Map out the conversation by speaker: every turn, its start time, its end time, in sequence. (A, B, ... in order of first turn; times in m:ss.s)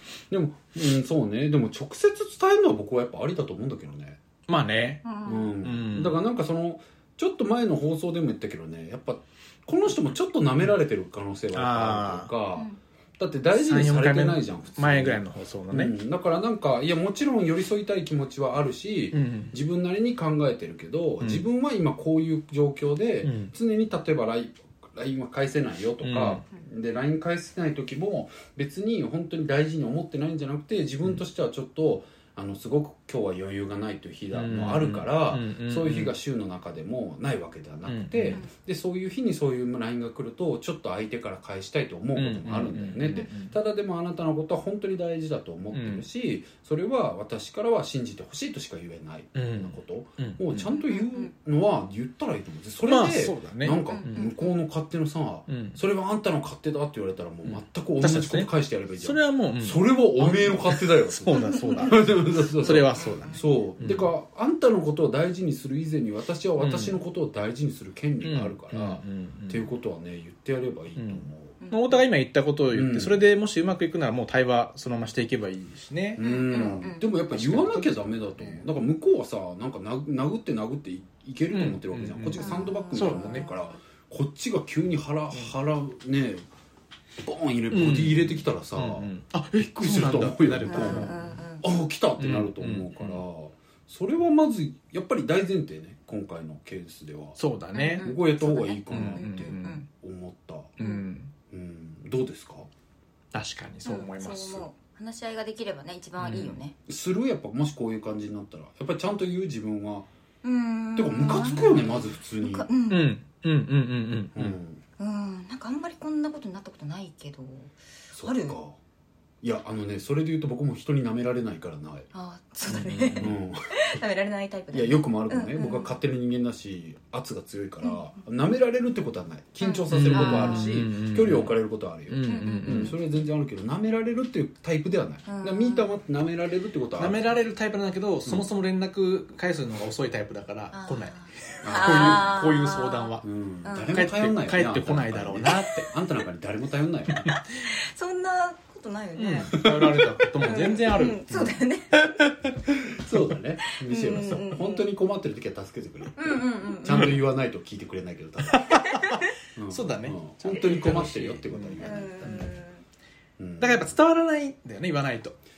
0:00.3-0:04.2 A
0:04.5-0:05.0 B
0:05.0-0:05.5 C
0:05.2-1:11.6 A
0:05.6-0:06.2 B
0:11.5-0:12.3 B
0:13.5-0:15.9 B
0:19.1-0:19.5 B
0:23.2-0:23.5 B
0:26.0-0:26.4 B
0:34.3-0:36.1 B
0:37.8-0:38.4 B
0:42.1-0:43.5 B
0:45.7-0:46.0 B
0:49.3-0:50.7 B
0:50.7-0:51.3 C
0:52.8-0:54.3 B
0:53.9-0:54.5 C
0:55.5-0:55.8 B
0:57.4-1:04.1 B
1:01.4-1:02.0 C
1:02.9-1:03.4 C
1:06.6-1:07.0 B
1:08.2-1:09.7 B
1:11.0-1:16.2 B
1:11.6-1:12.0 C
1:12.7-1:13.2 A
1:16.2-1:26.4 A
1:16.2-1:17.1 C
1:17.3-1:18.0 B
1:21.5-1:23.5 B
1:22.3-1:23.7 C
1:27.2-1:37.4 A
1:27.7-1:31.4 B
1:30.7-1:31.7 C
1:32.2-1:33.2 B
1:37.4-1:38.1 B
1:37.7-1:39.8 C
1:38.0-1:40.8 A
1:38.9-1:39.8 B
1:40.8-1:41.3 B
1:40.8-1:41.0 C
1:41.5-1:42.7 A
1:43.3-1:44.7 B
1:43.8-1:46.8 C
1:46.2-1:46.6 B
1:46.9-1:50.1 A
1:50.4-1:53.1 C
1:50.9-1:52.7 A
1:52.9-1:54.6 B
1:54.3-1:54.8 A
1:55.0-1:58.6 C
1:58.1-1:58.8 A
1:59.4-2:02.1 A
2:02.1-2:05.9 C
2:02.7-2:03.3 B
2:03.2-2:03.8 A
2:04.7-2:17.3 A
2:09.6-2:10.7 C
2:09.9-2:11.6 B
2:12.1-2:13.0 B
2:12.3-2:13.0 C
2:15.2-2:16.0 C
2:17.0-2:23.3 B
2:20.7-2:24.0 C
2:21.6-2:22.4 A
2:23.2-2:27.3 A
2:23.9-2:25.9 B
2:27.1-2:27.5 B
2:27.6-2:29.7 C
2:29.2-2:32.6 B
2:29.5-2:30.1 A
2:30.4-2:32.1 C
2:32.9-2:38.8 A
2:33.6-2:34.9 C
2:36.2-2:37.3 C
2:38.5-2:42.5 B
2:38.7-2:39.3 C
2:39.6-2:42.5 A
2:41.8-2:42.8 C
2:43.4-2:43.9 A
2:43.6-2:45.4 B